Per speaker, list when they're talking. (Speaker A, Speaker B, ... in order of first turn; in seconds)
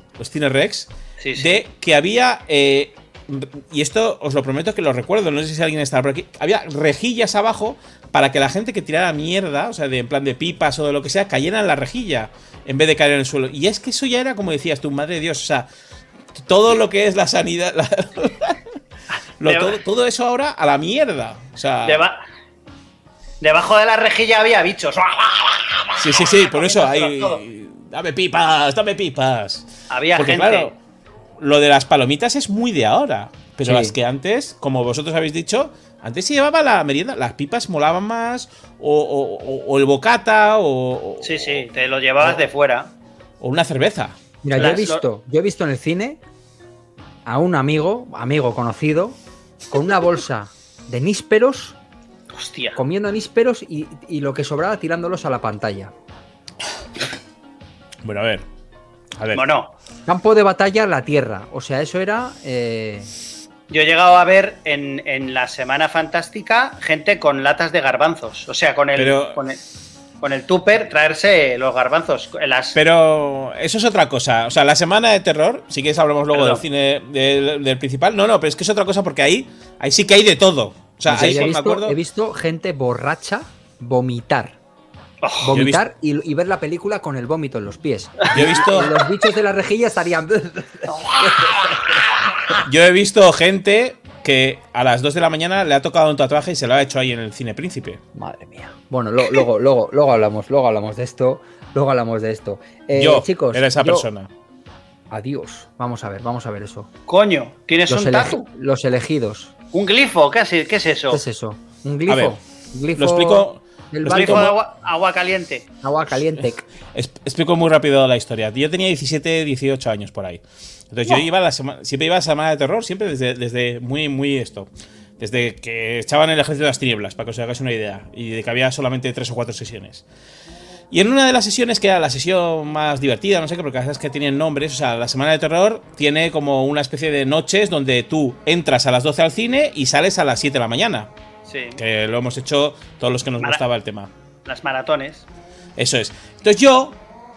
Speaker A: 0.2-15.7, 16.3-18.6, 19.4-22.1, 26.0-30.8, 31.4-41.6, 43.4-44.9, 58.0-58.5, 59.2-59.4, 69.0-69.4, 72.8-82.0, 85.5-85.8, 88.3-89.0, 92.6-98.0, 103.0-104.3, 112.1-112.4, 113.0-114.5, 116.9-124.7, 125.2-130.0, 130.9-141.1, 141.8-144.1, 145.8-147.0
Speaker B: 1.2-1.6, 19.4-19.8, 21.9-22.2, 23.4-27.4, 29.9-30.7, 41.2-42.9, 44.6-45.0, 52.3-52.8, 59.3-59.7, 63.7-69.6, 70.2-72.8, 76.3-76.6, 81.1-81.5, 85.2-85.5, 90.9-92.6, 107.1-108.4, 109.7-111.2, 114.0-115.7, 141.5-141.8, 144.5-145.3
Speaker C: 33.6-34.0, 44.4-46.2, 47.3-49.2, 49.7-51.8, 52.8-55.9, 60.1-63.1, 81.1-84.6, 85.4-92.0, 98.2-104.1, 105.1-106.9, 107.9-109.5, 111.1-114.5, 115.8-116.7